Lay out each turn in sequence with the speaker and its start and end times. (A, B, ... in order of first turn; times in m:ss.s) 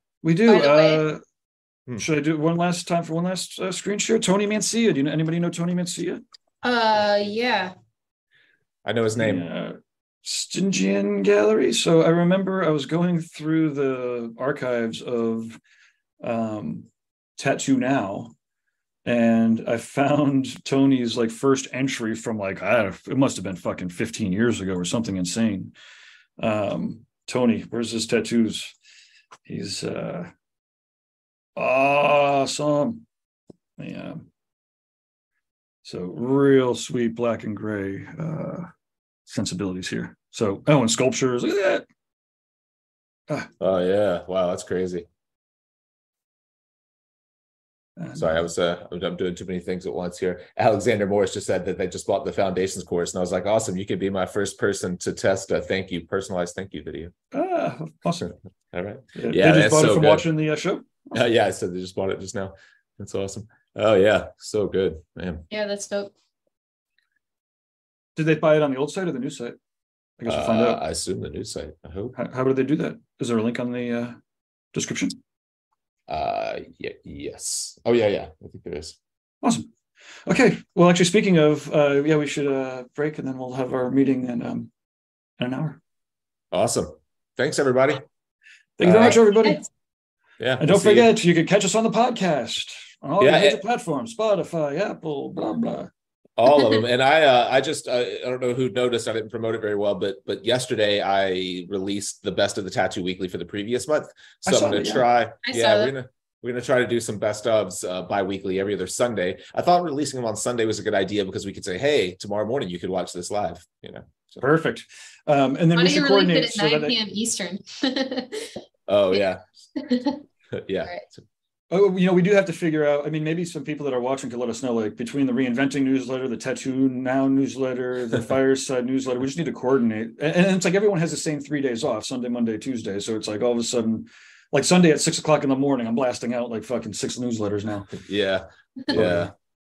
0:00.2-0:01.2 A
0:00.5-0:01.0 B
0:02.0-0:06.2 A
0:06.6-0:07.7 B
0:08.8-0:09.5 C
0:09.2-0:15.6 A
0:16.2-0:18.3 A
0:19.0-0:25.8 A
0:26.4-0:28.8 A
0:29.5-0:30.3 A
0:31.6-0:33.0 A
0:33.8-0:34.2 A
0:35.8-0:38.7 A
0:39.2-0:41.8 A
0:43.6-0:45.0 C
0:48.0-0:48.4 A
0:48.2-0:57.1 C
0:57.3-0:58.3 A
0:58.3-1:00.3 C
0:59.2-1:01.2 A
1:01.1-1:05.4 C
1:05.5-1:06.1 B
1:08.2-1:09.6 A
1:10.2-1:10.8 A
1:10.3-1:12.2 C
1:12.1-1:14.2 A
1:14.7-1:15.2 A
1:16.1-1:19.0 C
1:19.4-1:19.7 A
1:20.3-1:24.7 A
1:25.4-1:25.8 A
1:26.5-1:28.0 C
1:28.8-1:29.7 A
1:28.8-1:29.2 C
1:29.0-1:29.6 B
1:30.4-1:31.1 C
1:30.6-1:35.9 A
1:33.2-1:33.6 C
1:36.4-1:54.4 C
1:44.5-1:45.1 A
1:45.4-1:45.9 B
1:54.4-1:57.0 A
1:55.8-1:58.6 B
1:58.9-1:59.4 C
1:59.8-2:00.2 B
2:00.5-2:01.2 C
2:01.7-2:17.9 A
2:17.9-2:19.3 C
2:18.9-2:19.3 A